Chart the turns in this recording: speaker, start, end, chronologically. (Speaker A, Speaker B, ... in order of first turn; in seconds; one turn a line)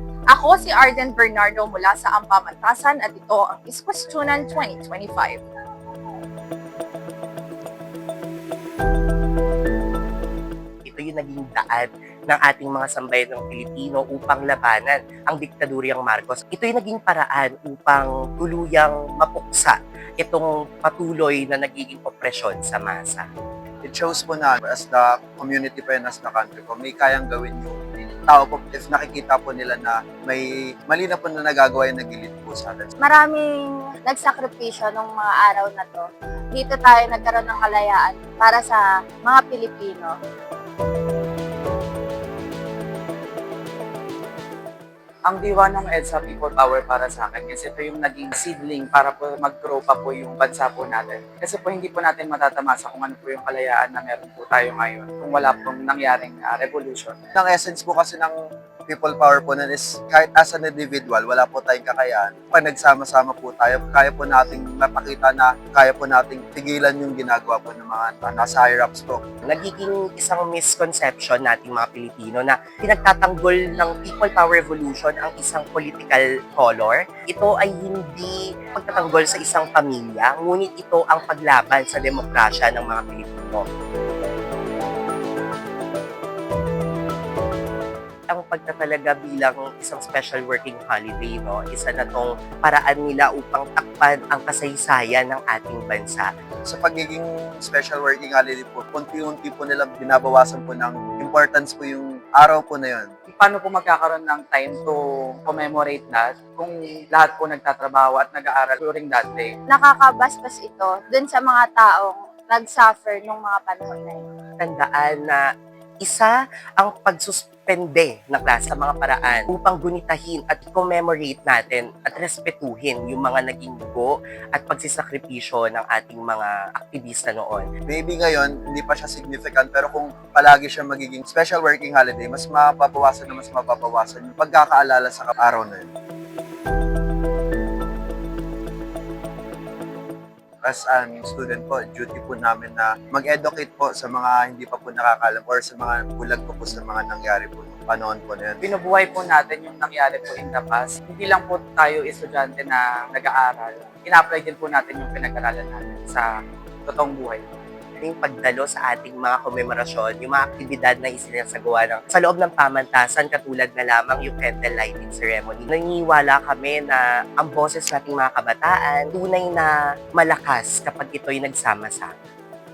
Speaker A: 0.3-5.4
Speaker B: 10.8-23.3
Speaker C: 23.9-32.9
Speaker D: 33.0-40.2
Speaker E: 45.3-57.1
Speaker C: 57.4-58.4
Speaker C: 58.9-69.2
Speaker B: 69.5-83.6
Speaker B: 88.3-96.3
Speaker C: 96.7-103.1
Speaker E: 103.3-109.5
Speaker D: 109.7-114.3
Speaker B: 114.6-115.4
Speaker B: 116.0-127.7
Speaker C: 127.9-135.9
Speaker C: 140.6-148.6
Speaker E: 148.6-156.2
Speaker E: 156.9-157.4
Speaker B: 158.0-172.1